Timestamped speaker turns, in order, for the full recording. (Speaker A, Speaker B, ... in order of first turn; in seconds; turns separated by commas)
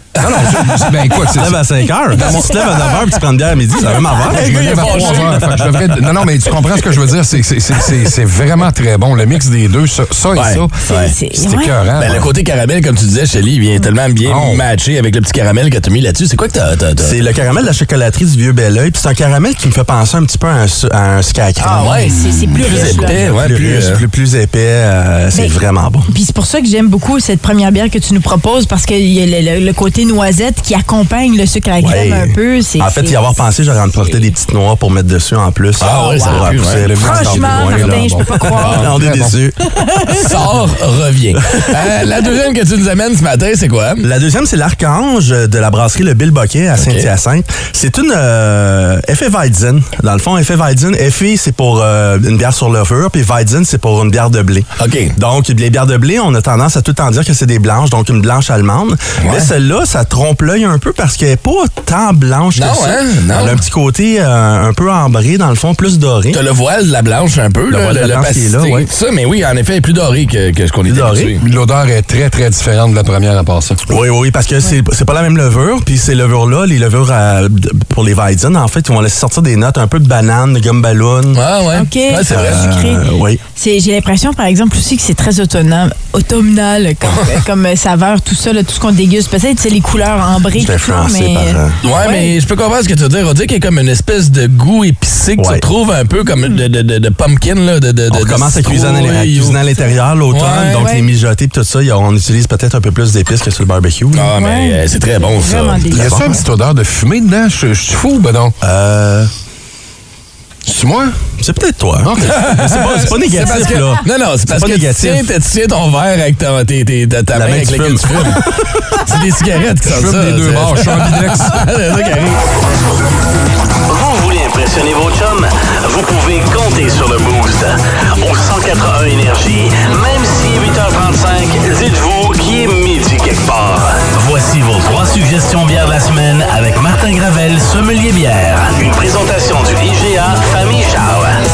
Speaker A: 0.1-0.9, Speaker B: 0.2-2.6, Speaker C: 1.3-5.3, Speaker A: 2.2-2.5, Speaker A: 3.9-7.0, Speaker B: 4.3-10.8, Speaker A: 10.3-11.1, Speaker D: 10.9-11.7, Speaker B: 11.3-12.3, Speaker A: 12.0-17.2, Speaker B: 14.2-14.6, Speaker C: 17.0-22.1, Speaker D: 21.6-23.2, Speaker A: 21.8-24.0, Speaker C: 22.6-26.1, Speaker D: 26.1-33.4, Speaker C: 31.8-39.6, Speaker A: 35.8-36.9, Speaker D: 35.8-36.4, Speaker B: 36.7-39.4, Speaker D: 37.0-38.9, Speaker D: 39.7-40.3, Speaker A: 40.1-44.0, Speaker C: 41.4-41.7, Speaker C: 44.0-66.4, Speaker A: 46.8-47.1, Speaker A: 54.8-55.1, Speaker A: 59.2-59.5, Speaker A: 62.5-63.6, Speaker A: 66.3-71.4, Speaker C: 67.7-68.9, Speaker C: 70.8-71.3, Speaker B: 71.4-73.8, Speaker C: 73.8-81.4, Speaker A: 81.3-82.7, Speaker D: 81.7-92.3, Speaker C: 82.3-83.4, Speaker A: 87.0-87.4, Speaker C: 90.5-91.8, Speaker A: 91.8-99.6, Speaker C: 95.4-95.6, Speaker D: 96.3-96.6, Speaker C: 98.1-104.3, Speaker A: 100.3-100.9, Speaker D: 100.8-101.1, Speaker A: 104.1-106.1, Speaker D: 104.3-106.5, Speaker B: 105.9-108.5, Speaker C: 108.6-109.3, Speaker B: 110.6-111.2, Speaker C: 111.4-115.3, Speaker B: 112.0-112.4, Speaker A: 112.2-122.4, Speaker C: 117.3-119.0, Speaker B: 119.8-121.6, Speaker E: 124.0-141.3